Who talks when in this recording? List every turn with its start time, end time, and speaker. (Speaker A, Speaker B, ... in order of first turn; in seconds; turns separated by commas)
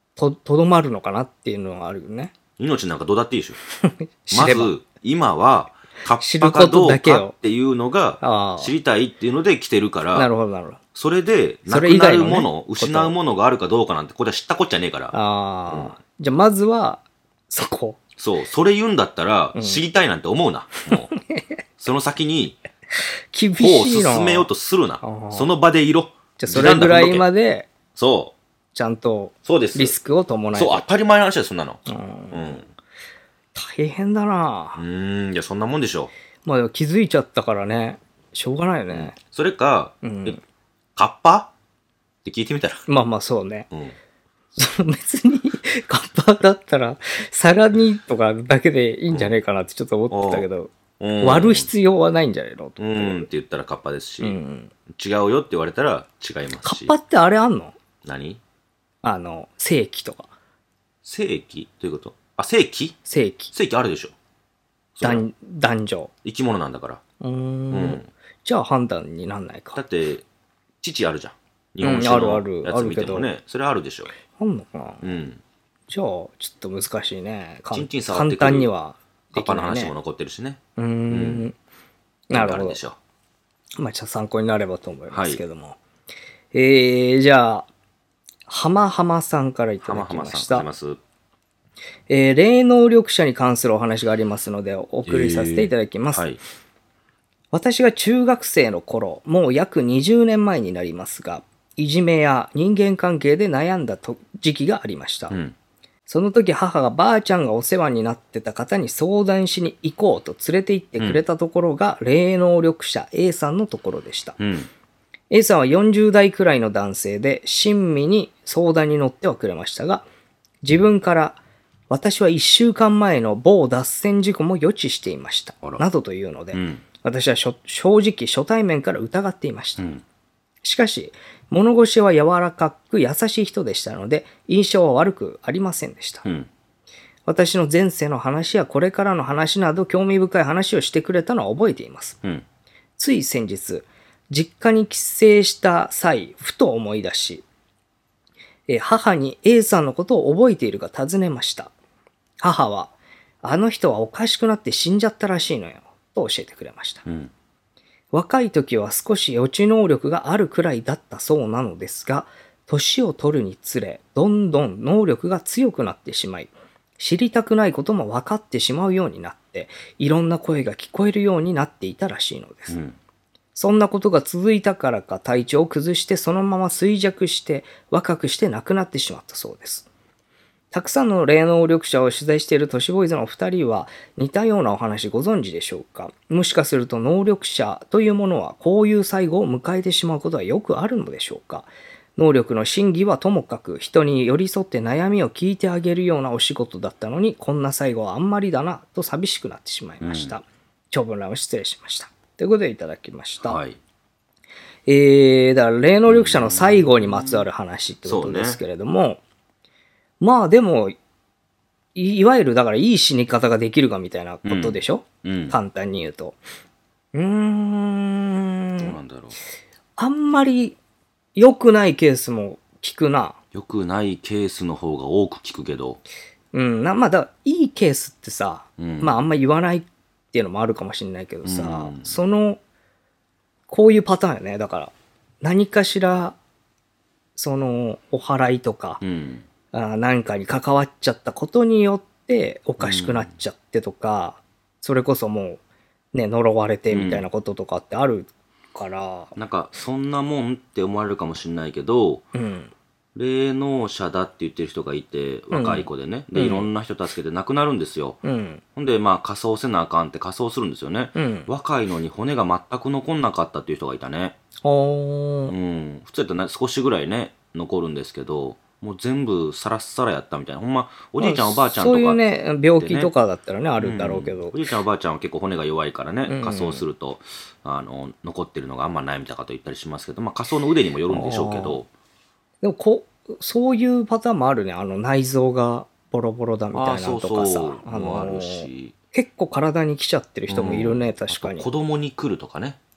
Speaker A: 0.2-2.3, Speaker B: 2.6-3.6, Speaker A: 3.8-4.7, Speaker B: 4.3-10.3, Speaker A: 6.2-7.3, Speaker A: 8.2-8.7, Speaker A: 10.1-10.8, Speaker B: 10.9-15.2, Speaker A: 11.7-13.2, Speaker A: 15.1-18.0, Speaker B: 15.7-15.9, Speaker B: 18.2-21.1, Speaker A: 19.6-19.8, Speaker A: 20.9-21.6, Speaker B: 21.8-22.6, Speaker A: 23.3-24.5, Speaker B: 23.6-27.3, Speaker A: 25.0-25.5, Speaker A: 26.4-27.7, Speaker B: 27.9-28.4, Speaker A: 28.7-30.9, Speaker B: 29.4-30.0, Speaker B: 30.5-32.7, Speaker A: 31.9-32.6, Speaker A: 33.5-34.8, Speaker B: 34.8-36.1, Speaker A: 36.5-39.2, Speaker B: 38.9-40.4, Speaker A: 40.0-40.4, Speaker B: 41.0-41.5, Speaker B: 42.2-42.9, Speaker A: 42.9-43.7, Speaker B: 43.7-44.0, Speaker A: 44.6-53.3, Speaker B: 49.1-49.4, Speaker B: 50.1-50.5, Speaker B: 51.0-51.7, Speaker B: 52.8-54.4, Speaker A: 54.2-54.7, Speaker B: 54.9-56.9, Speaker A: 56.6-57.8, Speaker B: 58.0-58.4, Speaker A: 59.0-60.3, Speaker B: 61.0-63.0, Speaker A: 63.1-63.5, Speaker B: 63.5-64.1, Speaker B: 65.0-65.2, Speaker A: 65.0-66.1, Speaker B: 66.2-67.0, Speaker A: 67.2-69.8, Speaker B: 67.7-68.1, Speaker B: 69.8-70.2, Speaker B: 70.8-74.1, Speaker A: 71.8-73.3, Speaker A: 74.3-75.1, Speaker B: 75.0-75.4, Speaker A: 75.9-79.9, Speaker B: 77.7-78.7, Speaker B: 79.3-81.5, Speaker A: 80.8-81.5, Speaker A: 82.3-82.8, Speaker B: 82.3-83.0, Speaker A: 83.8-85.8, Speaker B: 85.1-85.4, Speaker A: 86.5-87.7, Speaker A: 88.5-90.7, Speaker B: 89.8-91.0, Speaker A: 92.1-96.3, Speaker B: 95.1-96.4, Speaker A: 97.5-105.4, Speaker B: 105.3-105.5, Speaker A: 106.1-114.4, Speaker B: 114.4-114.7, Speaker A: 115.3-120.1, Speaker A: 120.6-129.8, Speaker B: 126.5-126.8, Speaker B: 129.8-130.0, Speaker A: 130.6-136.3, Speaker A: 137.3-142.2, Speaker A: 143.0-147.4, Speaker A: 148.7-151.7, Speaker A: 152.4-157.1, Speaker B: 157.1-157.3, Speaker A: 158.1-172.8, Speaker B: 172.7-173.0, Speaker A: 173.6-179.9, Speaker A: 180.7-203.6, Speaker B: 200.0-200.3, Speaker B: 203.4-203.8, Speaker A: 204.9-209.2, Speaker B: 206.1-207.5, Speaker B: 208.1-208.6, Speaker A: 210.2-211.0, Speaker A: 211.9-216.4, Speaker B: 214.4-215.6, Speaker A: 217.1-218.9, Speaker B: 218.8-219.4, Speaker A: 220.0-220.8, Speaker A: 221.3-223.4, Speaker B: 223.5-226.0, Speaker A: 226.5-232.6, Speaker B: 228.8-229.2, Speaker B: 231.4-232.2, Speaker A: 233.7-236.4, Speaker A: 237.4-239.0, Speaker B: 239.0-239.5, Speaker A: 239.7-245.6, Speaker B: 242.8-243.3, Speaker A: 246.1-249.3, Speaker B: 246.9-247.3, Speaker B: 249.3-252.3, Speaker A: 252.3-252.7, Speaker B: 253.2-258.2, Speaker A: 255.5-256.7, Speaker A: 258.2-258.6, Speaker B: 258.8-264.4, Speaker A: 261.2-261.5, Speaker A: 264.6-265.5, Speaker B: 265.5-272.2, Speaker A: 271.2-274.6, Speaker B: 272.8-273.1, Speaker B: 273.8-281.9, Speaker A: 276.3-276.8, Speaker A: 281.1-281.8, Speaker A: 282.6-291.7, Speaker B: 286.7-288.9, Speaker B: 290.5-292.8